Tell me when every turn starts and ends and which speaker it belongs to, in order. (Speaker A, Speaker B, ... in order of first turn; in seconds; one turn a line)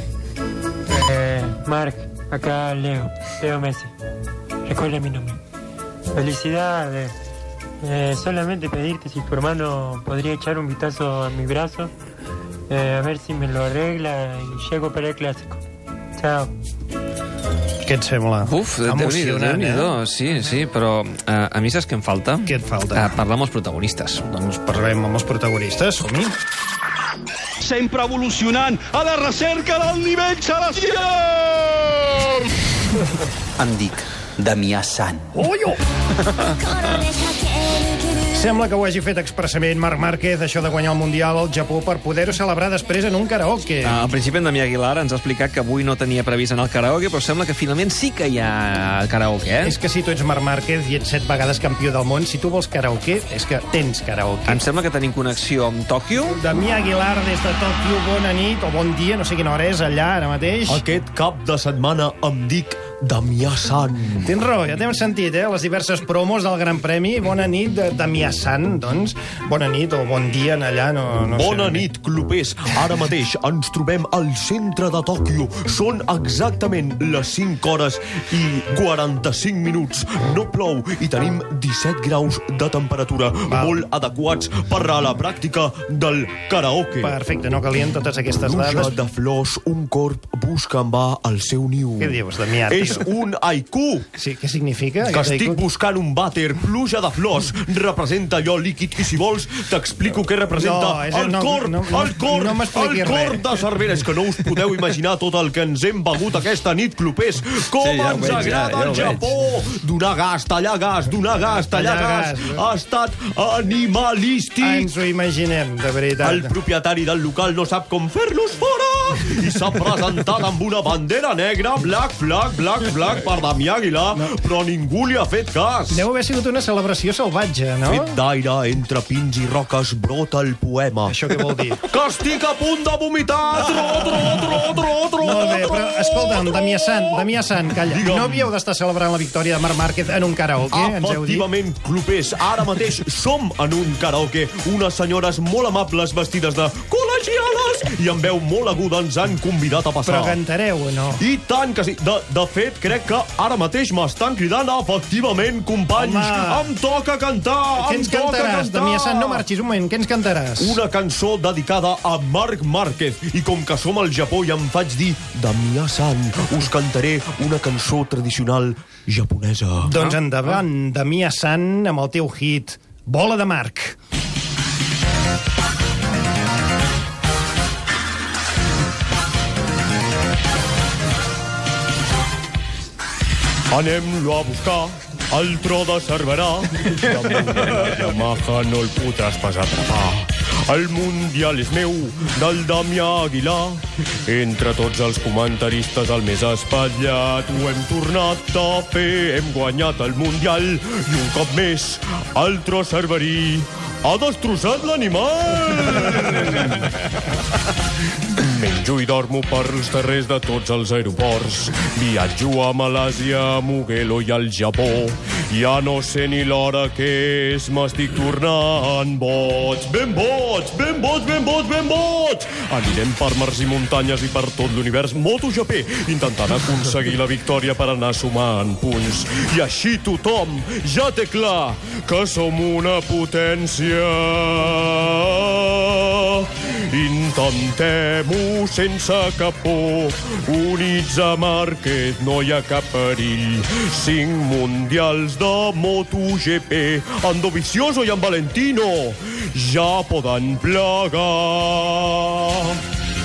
Speaker A: 0.9-3.9
Speaker A: 4.7-5.4
Speaker A: 6.1-7.1
Speaker A: 7.8-11.9
Speaker A: 12.7-15.6
Speaker A: 16.2-16.5
Speaker B: 17.8-20.0
Speaker C: 18.4-24.2
Speaker B: 22.4-23.2
Speaker B: 24.2-26.3
Speaker D: 27.6-31.6
Speaker B: 38.3-44.0
Speaker C: 43.8-49.8
Speaker B: 49.6-54.6
Speaker C: 54.5-56.3
Speaker B: 56.3-60.8
Speaker E: 60.7-64.3
Speaker B: 64.2-71.9
Speaker E: 71.3-87.2
Speaker B: 83.5-83.8
Speaker B: 87.0-89.0
Speaker E: 88.4-94.1
Speaker B: 92.0-93.0
Speaker B: 94.2-95.6
Speaker E: 95.1-114.9
Speaker B: 100.5-103.4
Speaker C: 107.8-109.2
Speaker B: 111.7-112.6
Speaker B: 114.6-116.5
Speaker E: 116.2-126.0
Speaker B: 125.9-128.1
Speaker E: 127.8-131.2
Speaker B: 131.1-131.8
Speaker E: 131.9-137.3
Speaker B: 135.2-141.4
Speaker E: 137.9-138.5
Speaker E: 140.7-150.4
Speaker B: 150.1-151.2
Speaker E: 151.2-159.4
Speaker B: 155.9-156.7
Speaker B: 157.8-160.8
Speaker E: 160.6-170.0
Speaker B: 169.8-174.0
Speaker E: 183.7-206.9
Speaker E: 208.4-252.8